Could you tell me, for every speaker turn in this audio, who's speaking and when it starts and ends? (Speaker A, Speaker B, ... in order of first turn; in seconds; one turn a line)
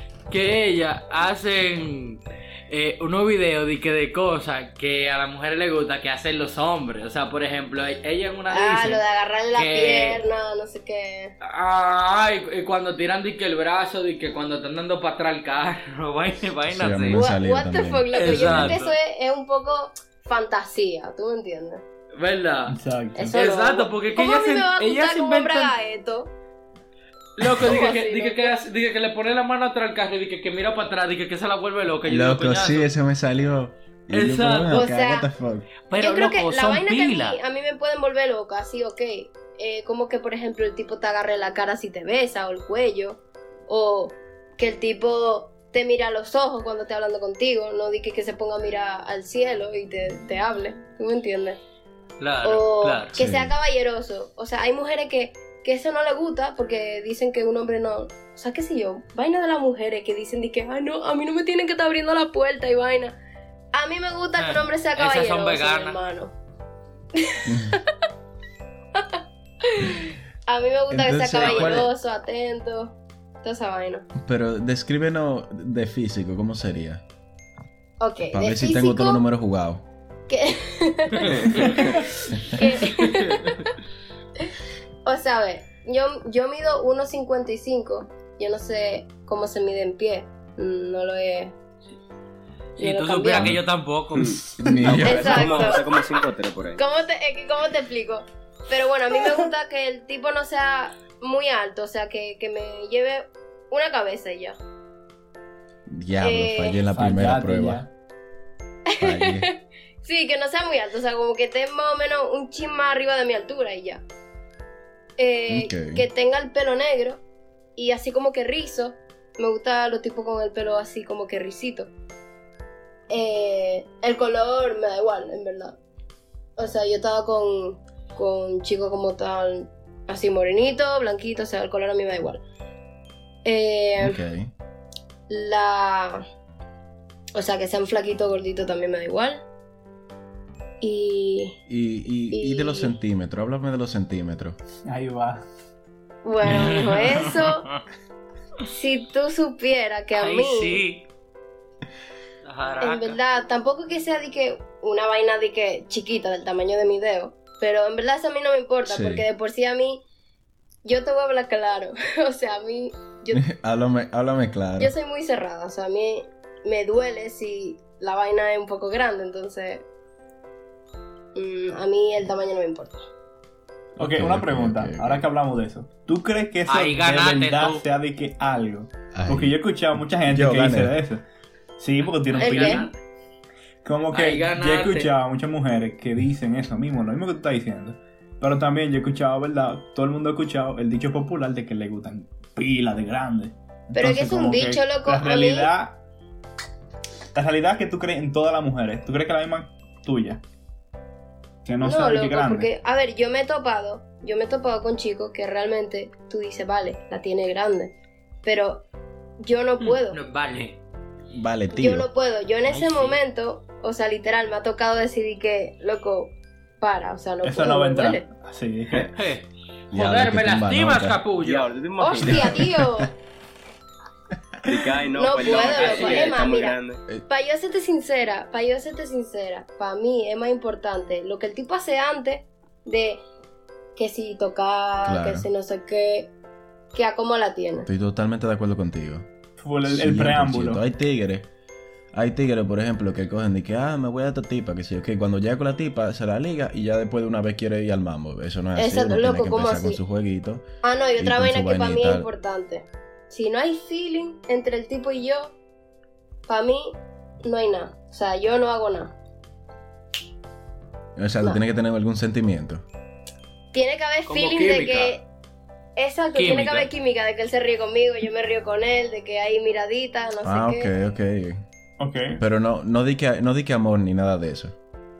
Speaker A: 0.3-9.0
Speaker B: 8.5-11.3
Speaker A: 9.5-10.2
Speaker A: 11.4-17.2
Speaker C: 16.7-18.7
Speaker B: 17.1-21.8
Speaker A: 18.1-18.9
Speaker A: 22.2-22.8
Speaker D: 22.7-23.4
Speaker B: 23.1-26.3
Speaker A: 23.3-25.7
Speaker A: 27.4-32.9
Speaker B: 27.6-28.6
Speaker C: 32.1-35.7
Speaker A: 34.1-34.8
Speaker B: 34.7-35.3
Speaker A: 35.9-37.4
Speaker B: 36.0-51.6
Speaker A: 52.2-53.1
Speaker B: 52.4-63.1
Speaker C: 53.1-53.5
Speaker B: 63.7-66.3
Speaker A: 64.4-66.0
Speaker B: 67.2-67.9
Speaker C: 67.5-67.7
Speaker B: 69.0-74.1
Speaker C: 70.9-71.9
Speaker A: 71.4-71.8
Speaker C: 74.2-77.0
Speaker B: 78.0-79.2
Speaker C: 78.3-79.8
Speaker B: 80.3-83.6
Speaker E: 81.2-82.0
Speaker A: 83.0-83.5
Speaker B: 85.0-91.5
Speaker A: 92.8-94.4
Speaker B: 92.8-93.5
Speaker E: 94.1-96.8
Speaker C: 94.5-95.7
Speaker B: 95.0-96.1
Speaker B: 96.8-104.6
Speaker C: 105.9-107.8
Speaker B: 106.2-106.8
Speaker D: 106.9-107.9
Speaker B: 108.9-114.0
Speaker C: 109.0-109.5
Speaker B: 115.2-117.2
Speaker C: 115.5-116.0
Speaker B: 117.8-121.9
Speaker B: 123.1-125.8
Speaker B: 126.6-132.4
Speaker B: 133.4-134.2
Speaker C: 134.0-134.5
Speaker B: 135.3-136.2
Speaker B: 137.3-139.4
Speaker B: 140.8-141.6
Speaker C: 141.7-144.6
Speaker B: 142.3-142.9
Speaker D: 144.8-145.4
Speaker B: 146.2-147.7
Speaker A: 146.4-147.8
Speaker B: 148.6-150.8
Speaker A: 150.2-151.0
Speaker A: 152.4-153.2
Speaker B: 152.8-160.0
Speaker C: 158.8-159.2
Speaker B: 160.8-163.4
Speaker C: 163.3-164.9
Speaker B: 164.8-169.8
Speaker B: 171.3-173.0
Speaker D: 174.0-181.2
Speaker C: 174.0-175.2
Speaker A: 176.7-177.8
Speaker C: 179.1-179.5
Speaker C: 180.2-180.9
Speaker D: 181.8-182.9
Speaker A: 182.2-183.0
Speaker B: 182.3-182.9
Speaker D: 183.8-196.0
Speaker A: 184.1-185.1
Speaker B: 193.9-195.7
Speaker D: 197.3-200.4
Speaker D: 201.6-202.7
Speaker B: 201.8-208.8
Speaker B: 209.4-210.2
Speaker A: 209.8-210.8
Speaker C: 211.3-212.1
Speaker B: 211.7-218.2
Speaker A: 212.7-213.2
Speaker D: 217.4-219.1
Speaker A: 219.1-221.7
Speaker C: 219.9-221.2
Speaker E: 221.4-222.7
Speaker B: 222.0-223.1
Speaker C: 222.2-223.1
Speaker E: 224.6-227.0
Speaker B: 225.1-233.2
Speaker A: 225.4-226.4
Speaker B: 233.9-236.3
Speaker C: 235.0-235.5
Speaker B: 236.9-237.9
Speaker C: 237.8-239.3
Speaker D: 239.6-240.8
Speaker C: 239.8-241.5
Speaker C: 242.1-250.6
Speaker B: 248.8-250.0
Speaker B: 250.8-255.5
Speaker C: 251.2-252.3
Speaker B: 256.5-259.1
Speaker C: 261.1-262.8
Speaker B: 263.7-265.2
Speaker A: 264.3-265.2
Speaker B: 266.0-270.9
Speaker A: 266.3-266.9
Speaker C: 270.4-271.6
Speaker D: 272.0-272.4
Speaker C: 272.4-274.7